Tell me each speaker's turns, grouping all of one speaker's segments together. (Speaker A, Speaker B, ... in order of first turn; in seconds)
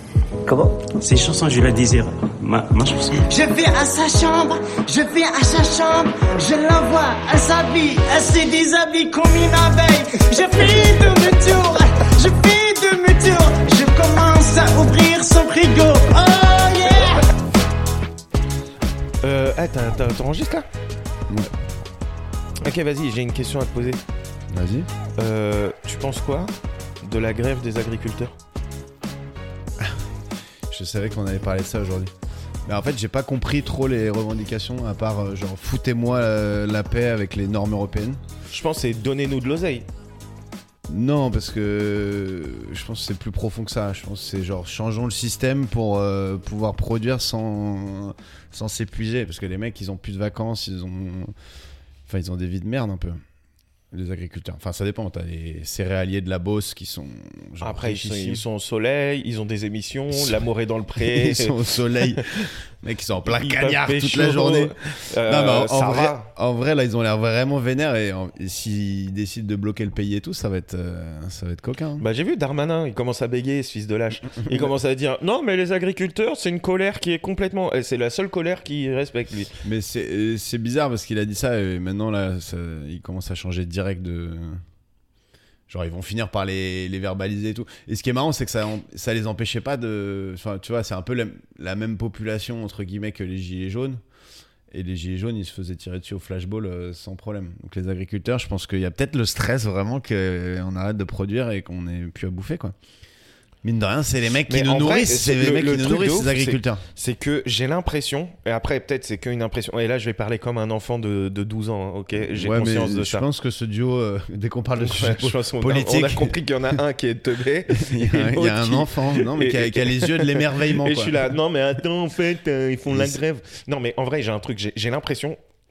Speaker A: 0.5-3.2
Speaker B: 3.3-17.3
Speaker C: 19.2-20.6, 22.6-24.0, 25.2-28.4, 38.5-39.8, 57.6-62.5, 63.3-66.3, 72.0-79.5, 104.5-113.2, 114.8-125.4
Speaker D: 24.5-24.9, 30.7-32.1, 32.6-38.2, 40.9-51.3, 52.1-53.2, 53.9-58.4, 60.1-60.4, 60.9-72.0, 74.4-74.7, 79.6-84.6, 85.7-94.0, 94.7-102.7, 103.6-106.8, 112.3-116.4, 117.7-121.2, 122.9-123.2